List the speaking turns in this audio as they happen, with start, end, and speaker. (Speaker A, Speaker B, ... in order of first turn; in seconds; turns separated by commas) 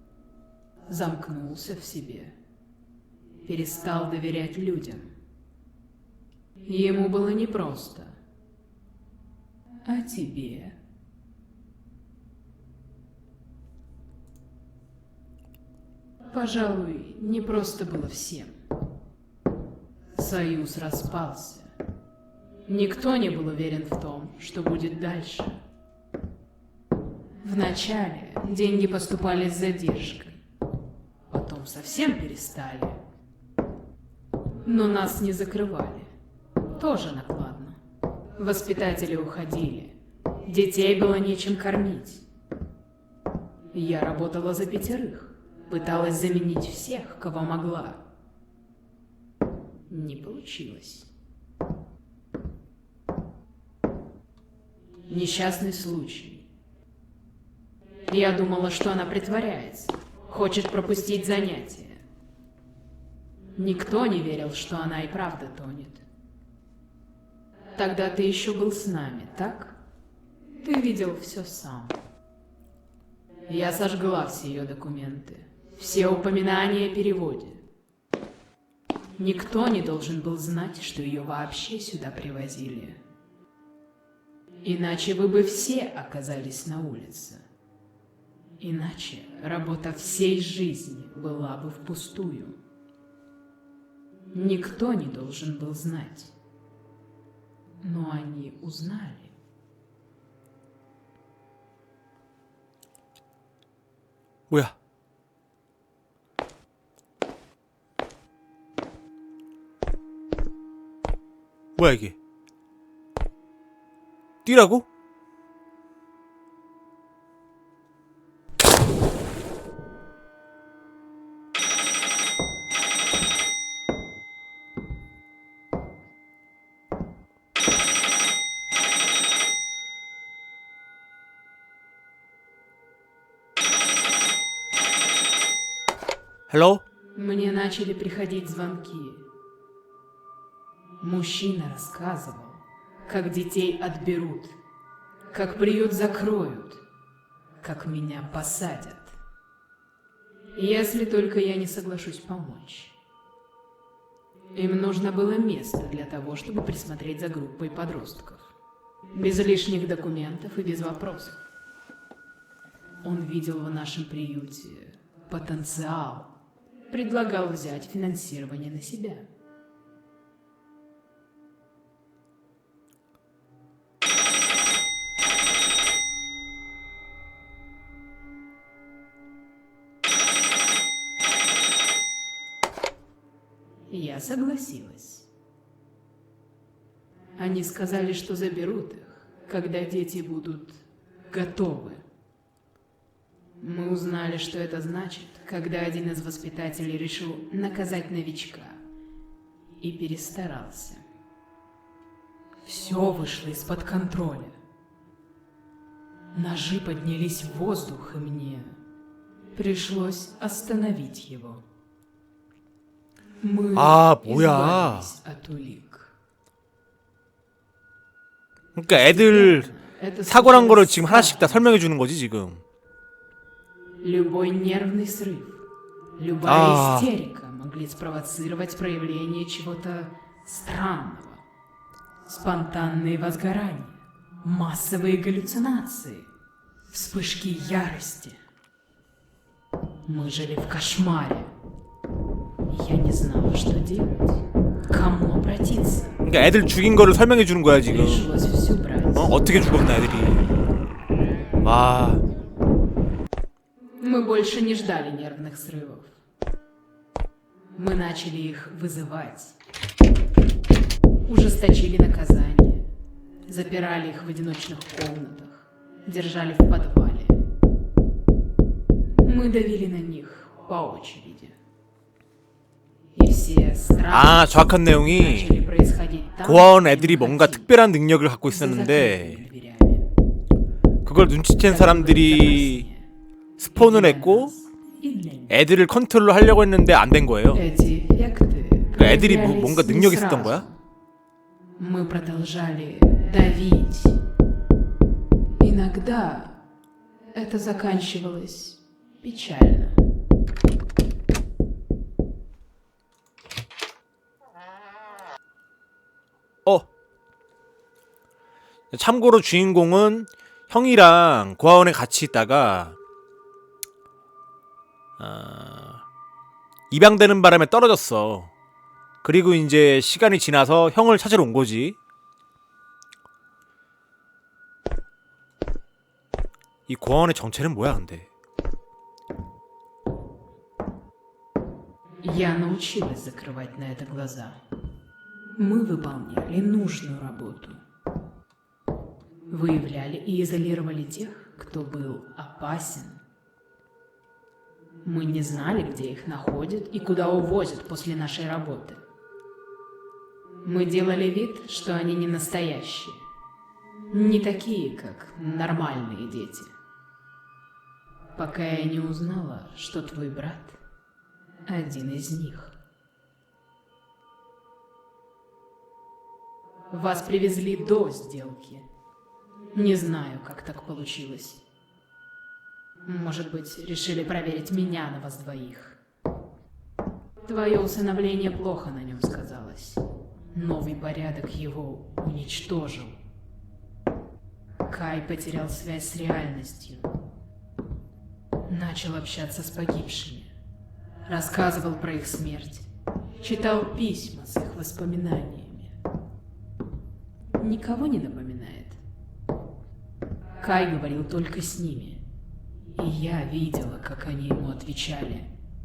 Speaker A: 0.8-2.4, Speaker A: 3.4-5.1, Speaker A: 6.6-8.2, Speaker A: 9.8-10.8, Speaker A: 16.2-18.5, Speaker A: 20.1-21.7, Speaker A: 22.6-25.6, Speaker A: 27.4-30.4, Speaker A: 31.3-33.0, Speaker A: 34.6-36.1, Speaker A: 36.6-37.8, Speaker A: 38.4-42.2, Speaker A: 43.7-48.1, Speaker A: 49.9-51.1, Speaker A: 55.1-56.5, Speaker A: 58.0-62.0, Speaker A: 63.5-66.0, Speaker A: 67.7-69.8, Speaker A: 70.6-72.0, Speaker A: 73.5-77.7, Speaker A: 79.2-83.0, Speaker A: 84.6-87.4, Speaker A: 88.6-92.6, Speaker A: 94.3-96.3, Speaker A: 97.8-99.3, Speaker B: 104.5-104.7, Speaker B: 111.8-112.2, Speaker B: 114.4-114.8, Speaker B: 136.5-136.8, Speaker A: 137.1-139.3, Speaker A: 141.0-144.6, Speaker A: 145.3-146.8, Speaker A: 147.6-149.2, Speaker A: 150.5-153.0, Speaker A: 154.5-158.5, Speaker A: 159.1-161.5, Speaker A: 163.0-166.3, Speaker A: 166.9-169.3, Speaker A: 183.9-185.3, Speaker A: 187.3-192.0, Speaker A: 193.6-198.8, Speaker A: 199.8-201.0, Speaker A: 202.6-204.6, Speaker A: 206.3-208.8, Speaker A: 209.5-211.6, Speaker A: 213.4-216.1, Speaker B: 213.8-215.1, Speaker B: 218.8-219.7, Speaker A: 218.9-221.7, Speaker B: 220.3-222.6, Speaker A: 224.0-225.7, Speaker A: 226.2-231.4, Speaker B: 226.4-227.1, Speaker A: 232.2-236.3, Speaker A: 236.9-238.4, Speaker A: 240.1-241.5, Speaker A: 242.7-246.2, Speaker B: 246.2-248.3, Speaker A: 247.9-249.4, Speaker B: 249.1-250.4, Speaker B: 251.6-252.2, Speaker A: 254.0-256.1, Speaker A: 257.7-259.6, Speaker A: 261.2-262.9, Speaker A: 263.4-267.4, Speaker A: 269.2-271.6, Speaker A: 273.1-277.7, Speaker B: 274.1-275.6, Speaker B: 276.4-279.4, Speaker A: 278.4-280.1, Speaker B: 281.0-282.8, Speaker A: 281.6-283.1, Speaker B: 283.6-284.5, Speaker A: 283.7-285.6, Speaker B: 285.5-287.6, Speaker A: 287.5-290.7, Speaker B: 288.9-290.6, Speaker A: 291.8-294.2, Speaker A: 295.6-296.6, Speaker A: 297.3-300.0, Speaker B: 308.9-313.0, Speaker B: 315.2-316.0, Speaker B: 316.9-318.5, Speaker B: 319.2-322.0, Speaker B: 326.9-328.3, Speaker A: 332.2-334.6, Speaker A: 335.6-337.8, Speaker A: 339.5-343.2, Speaker A: 345.0-349.0, Speaker A: 350.6-353.2, Speaker A: 354.1-356.7, Speaker A: 358.3-360.8, Speaker A: 361.6-362.8, Speaker A: 366.9-368.9, Speaker A: 369.7-371.6, Speaker A: 373.0-376.0, Speaker A: 377.4-383.2, Speaker A: 384.9-387.1, Speaker A: 388.7-390.5, Speaker A: 391.2-392.9, Speaker A: 393.4-395.9, Speaker A: 397.6-399.0, Speaker A: 400.6-402.2, Speaker A: 402.9-405.5